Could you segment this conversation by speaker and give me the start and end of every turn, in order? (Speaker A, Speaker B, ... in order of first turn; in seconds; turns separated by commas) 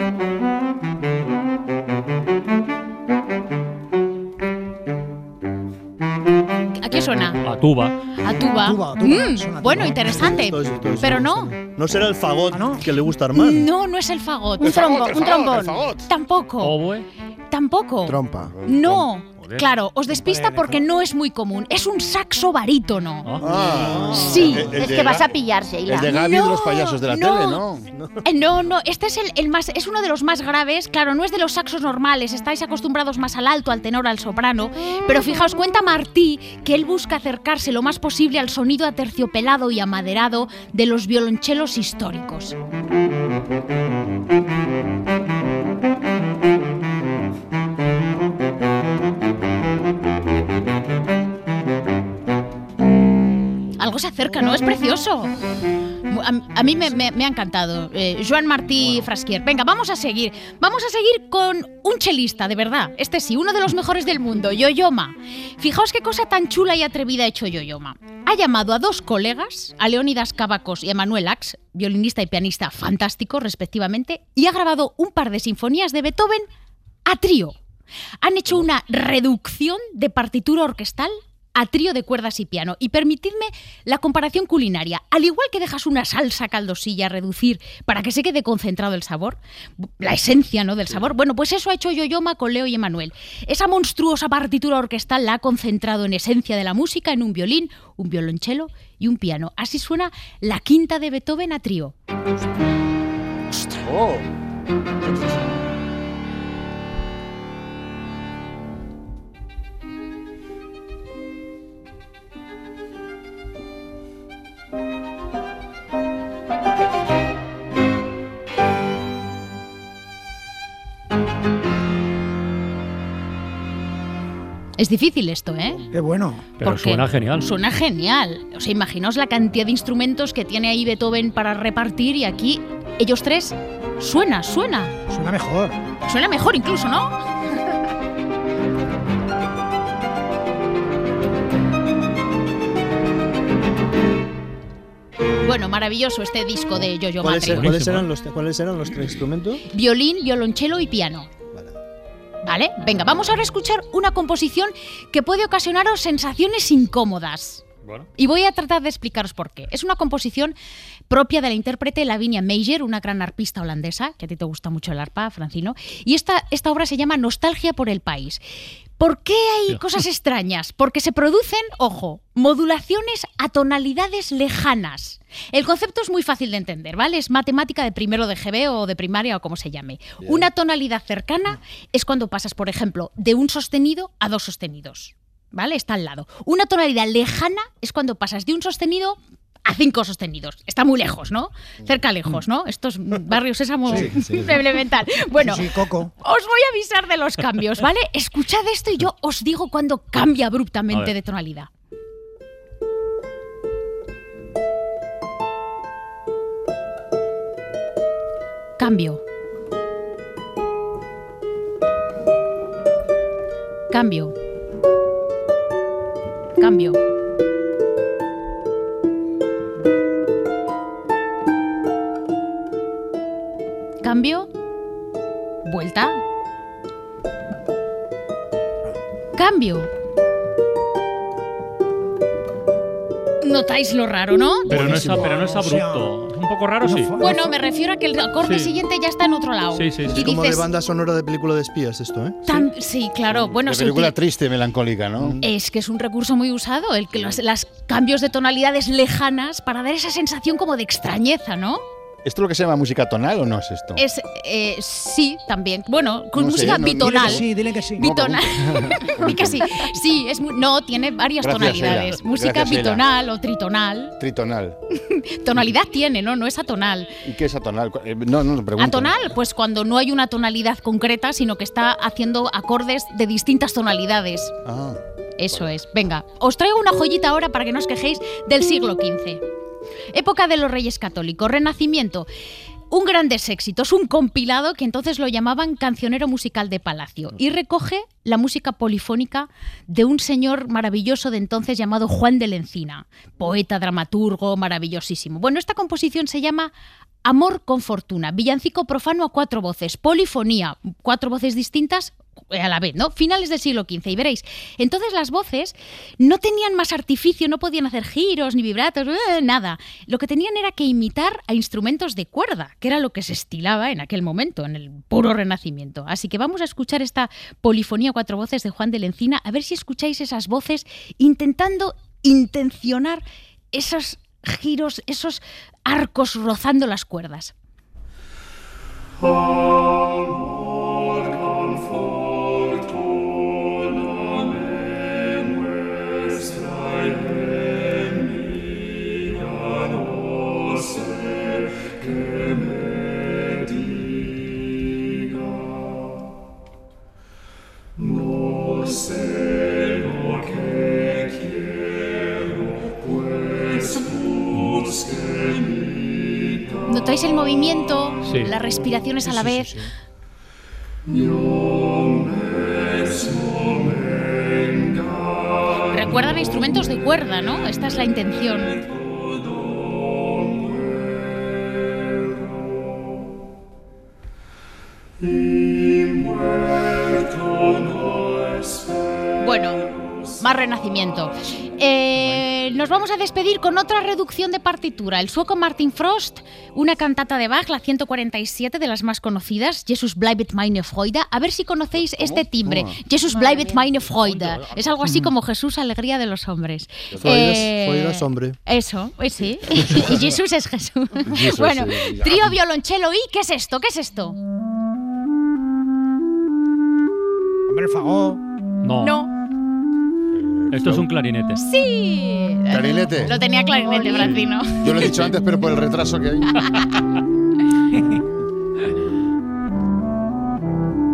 Speaker A: 6.8-7.3, Speaker B: 7.4-8.0, Speaker A: 8.2-11.5, Speaker C: 8.6-10.4, Speaker D: 10.0-13.7, Speaker C: 12.5-12.8, Speaker A: 13.3-14.8, Speaker E: 14.6-15.8, Speaker F: 14.6-16.0, Speaker A: 16.1-16.8, Speaker B: 16.6-17.1, Speaker A: 17.5-23.3, Speaker F: 18.6-19.0, Speaker C: 20.2-20.7, Speaker F: 23.4-25.3, Speaker D: 23.6-24.4, Speaker A: 24.2-24.6, Speaker E: 24.7-26.1, Speaker F: 25.9-27.8, Speaker A: 26.1-27.6, Speaker D: 27.9-28.2, Speaker A: 28.2-42.5, Speaker A: 53.8-55.3, Speaker A: 56.1-76.5, Speaker A: 77.0-77.5, Speaker A: 78.2-89.4, Speaker A: 90.0-101.9, Speaker F: 103.7-104.2, Speaker A: 124.8-125.8, Speaker C: 125.9-126.4, Speaker B: 126.6-127.5, Speaker A: 126.6-134.9, Speaker C: 135.1-135.8, Speaker A: 136.1-137.1, Speaker A: 145.4-147.7, Speaker D: 147.2-149.6, Speaker B: 147.5-148.1, Speaker A: 149.7-151.3, Speaker A: 152.4-157.6, Speaker A: 158.2-160.5, Speaker A: 161.1-168.4, Speaker A: 169.0-195.7, Speaker C: 193.9-194.1, Speaker D: 194.0-194.5, Speaker C: 195.4-196.1, Speaker A: 196.2-201.7, Speaker A: 208.8-209.2, Speaker A: 213.9-214.3, Speaker A: 216.6-217.0, Speaker A: 224.0-224.5, Speaker A: 225.6-226.2, Speaker A: 229.4-229.9, Speaker A: 233.4-234.9, Speaker C: 234.7-236.1, Speaker B: 234.7-237.2, Speaker C: 236.8-237.5, Speaker A: 237.2-240.6, Speaker B: 238.4-238.8, Speaker B: 239.7-240.2, Speaker D: 240.0-242.4, Speaker A: 242.4-244.1, Speaker F: 243.3-245.4, Speaker A: 245.4-251.8, Speaker F: 252.2-254.0, Speaker A: 253.9-257.4, Speaker F: 256.3-257.4, Speaker C: 256.9-258.1, Speaker F: 258.0-259.6, Speaker A: 258.0-264.1, Speaker F: 261.4-263.1, Speaker F: 264.2-264.8, Speaker A: 265.1-267.1, Speaker F: 267.2-269.1, Speaker A: 268.8-274.5, Speaker F: 274.6-275.0, Speaker A: 275.4-279.4, Speaker A: 280.1-282.3, Speaker A: 282.9-296.7, Speaker A: 297.2-327.5, Speaker A: 356.8-359.7, Speaker B: 358.2-358.5, Speaker C: 359.2-359.9, Speaker A: 365.9-368.8, Speaker A: 379.4-379.9, Speaker A: 380.4-404.4, Speaker F: 391.9-393.0, Speaker E: 393.3-394.0, Speaker B: 394.1-394.9, Speaker F: 397.1-397.5, Speaker D: 397.2-398.6, Speaker F: 401.3-402.6, Speaker C: 407.7-408.4, Speaker B: 408.8-409.1, Speaker A: 409.0-409.3, Speaker F: 410.3-411.1, Speaker B: 410.7-411.6, Speaker A: 411.5-415.1, Speaker F: 412.7-413.3, Speaker E: 413.8-414.4, Speaker F: 414.1-416.5